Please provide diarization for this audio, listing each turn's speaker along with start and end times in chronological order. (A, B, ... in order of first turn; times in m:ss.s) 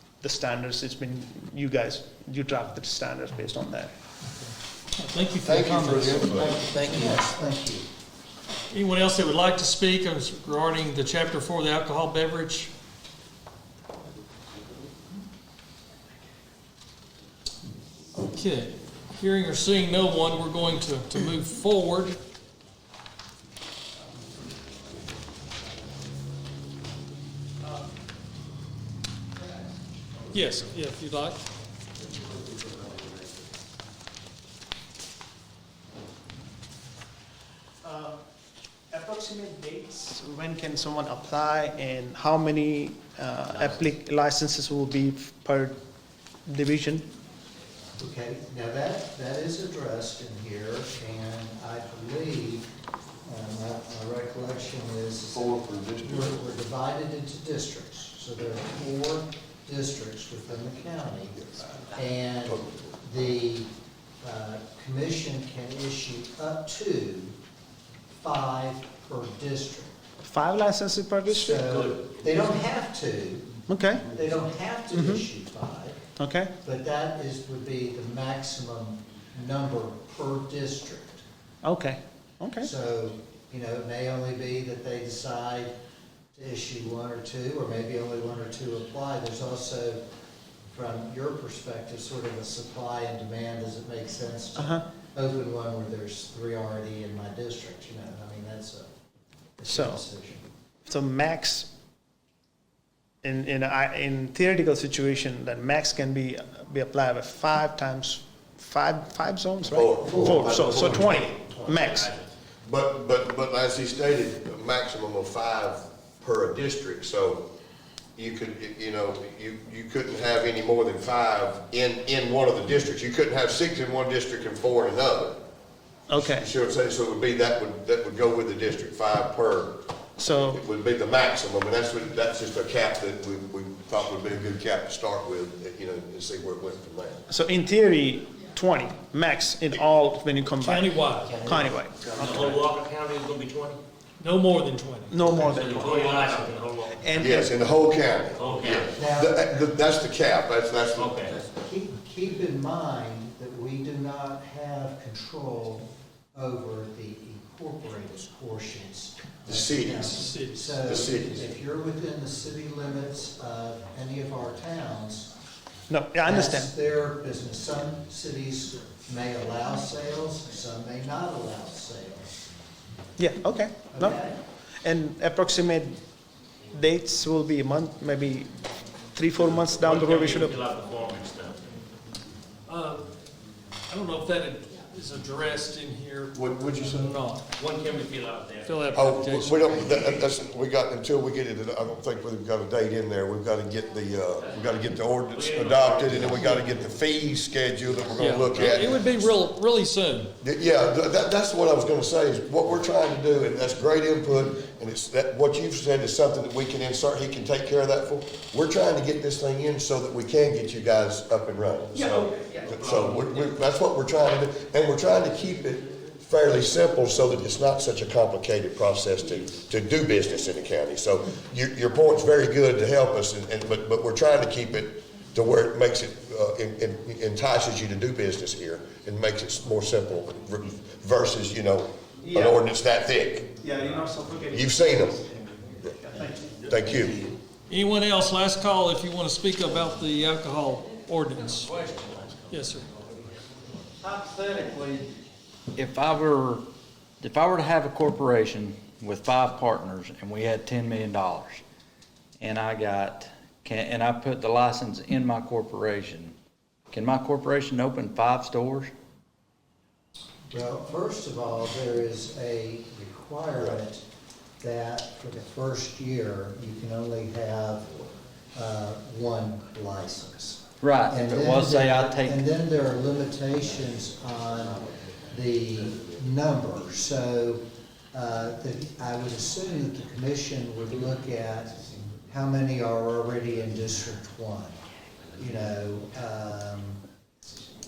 0:00.2-0:03.9 A
0:05.0-0:06.6 B
0:05.4-0:07.2 C
0:06.5-0:07.9 D
0:08.7-0:12.7 B
0:18.2-0:22.2 B
0:30.3-0:31.4 B
0:37.8-0:38.2 A
0:38.9-0:45.8 A
0:43.5-0:43.8 E
0:46.5-0:47.0 A
0:48.0-0:52.7 D
0:53.2-1:03.7 D
0:55.3-0:56.5 C
1:01.4-1:01.6 C
1:02.4-1:03.0 C
1:04.2-1:07.4 D
1:08.2-1:09.9 D
1:10.2-1:11.8 A
1:11.3-1:16.0 D
1:13.7-1:14.1 A
1:14.9-1:15.2 A
1:16.2-1:16.5 A
1:16.6-1:21.2 D
1:21.6-1:22.7 A
1:22.6-1:25.7 D
1:26.3-1:30.0 D
1:30.7-1:38.9 D
1:34.6-1:34.8 A
1:39.6-1:40.4 D
1:39.7-1:40.0 A
1:40.8-1:41.7 A
1:43.2-1:52.1 A
1:49.6-1:51.3 C
1:50.0-1:51.0 D
1:51.2-1:52.3 E
1:52.6-1:57.5 C
1:58.2-2:05.4 C
2:06.1-2:06.5 A
2:06.2-2:17.2 C
2:10.2-2:10.6 A
2:17.3-2:22.6 A
2:20.6-2:21.5 B
2:22.1-2:23.8 E
2:24.2-2:26.6 B
2:25.1-2:26.0 A
2:25.4-2:27.1 E
2:27.0-2:27.5 A
2:27.2-2:31.4 C
2:28.3-2:29.0 E
2:28.9-2:29.8 D
2:30.9-2:31.3 E
2:31.3-2:45.3 D
2:39.4-2:40.2 C
2:40.0-2:40.8 B
2:40.8-2:41.4 C
2:45.9-2:46.7 A
2:46.2-2:52.3 D
2:53.2-2:54.2 A
2:53.9-2:54.4 D
2:54.8-2:56.0 A
2:56.7-2:58.5 A
2:59.1-3:00.6 A
2:59.4-3:01.6 E
3:02.6-3:03.1 B
3:03.9-3:07.5 B
3:06.3-3:07.1 C
3:07.5-3:09.0 E
3:08.6-3:10.2 B
3:08.9-3:19.4 C
3:09.9-3:10.2 E
3:14.4-3:16.9 E
3:18.1-3:20.3 B
3:20.4-3:53.5 C
3:32.4-3:33.5 E
3:52.2-3:52.6 A
3:53.6-3:56.6 A
3:54.5-3:55.2 C
3:56.6-3:57.2 C
3:57.7-4:01.8 B
4:01.6-4:02.6 E
4:02.5-4:02.9 B
4:04.3-4:05.0 E
4:05.7-4:06.6 F
4:07.2-4:11.6 F
4:12.4-4:16.3 F
4:16.9-4:18.9 F
4:20.5-4:24.0 D
4:24.6-4:44.8 D
4:30.8-4:32.4 F
4:45.4-4:47.0 D